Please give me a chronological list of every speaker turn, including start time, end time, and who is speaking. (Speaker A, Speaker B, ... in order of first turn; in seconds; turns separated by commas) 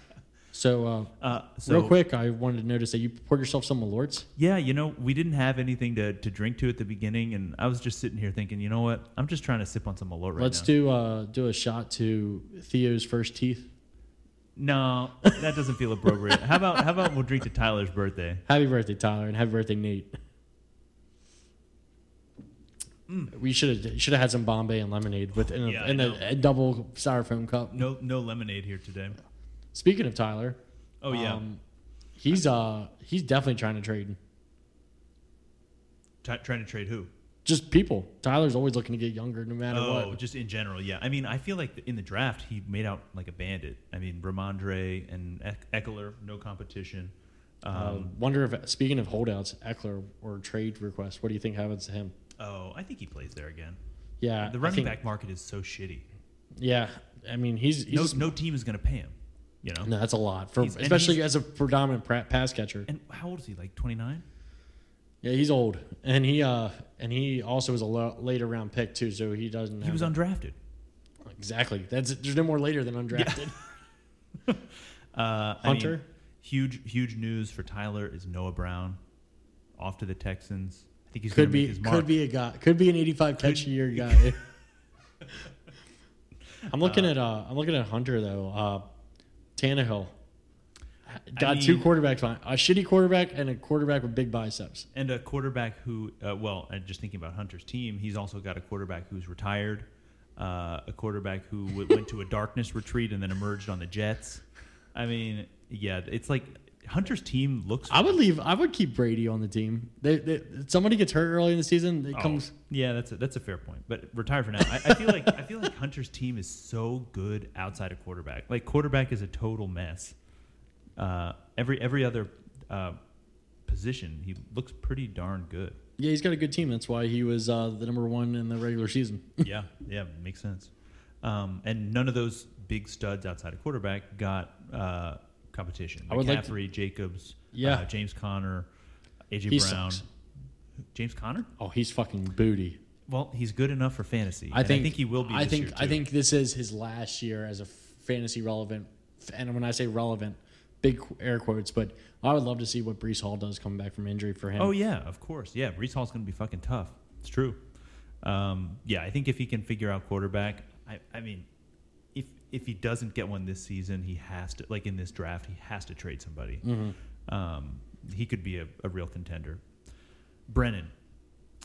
Speaker A: 0.5-4.3, Speaker B: 1.2-1.9, Speaker B: 4.3-10.7, Speaker A: 10.3-13.7, Speaker B: 14.6-18.4, Speaker A: 18.5-20.1, Speaker B: 23.1-23.3, Speaker A: 23.3-27.8, Speaker B: 25.5-26.2, Speaker B: 27.7-29.2, Speaker A: 29.7-31.6, Speaker B: 31.0-31.4, Speaker A: 32.2-34.2, Speaker B: 36.2-37.1, Speaker A: 37.4-40.2, Speaker B: 39.7-48.1, Speaker A: 47.7-52.1, Speaker B: 52.4-53.8, Speaker A: 54.2-55.0, Speaker B: 54.4-56.0, Speaker A: 56.6-58.3, Speaker B: 57.9-59.9, Speaker A: 59.8-62.9, Speaker B: 60.6-61.2, Speaker B: 62.9-64.2, Speaker A: 65.2-70.1, Speaker B: 69.8-70.5, Speaker A: 71.2-73.5, Speaker B: 73.1-73.5, Speaker B: 74.5-79.0, Speaker A: 75.6-76.0, Speaker B: 79.8-82.1, Speaker A: 81.3-84.4, Speaker B: 83.4-84.3, Speaker A: 86.7-88.8, Speaker B: 86.8-87.1, Speaker A: 89.6-90.1, Speaker A: 91.1-94.9, Speaker B: 91.3-91.9, Speaker B: 94.9-108.2, Speaker A: 107.9-112.5, Speaker B: 112.1-120.2, Speaker B: 121.0-123.0, Speaker B: 123.7-125.8, Speaker A: 126.0-129.4, Speaker B: 129.4-138.7, Speaker A: 136.1-136.5, Speaker A: 137.5-137.8, Speaker B: 139.3-140.0, Speaker A: 139.5-140.0, Speaker B: 140.9-141.5, Speaker A: 141.6-142.8, Speaker B: 143.1-146.0, Speaker A: 144.5-154.7, Speaker B: 154.6-157.6, Speaker B: 158.2-161.5, Speaker B: 162.1-166.7, Speaker A: 166.6-166.9, Speaker B: 167.3-169.6, Speaker B: 170.5-170.9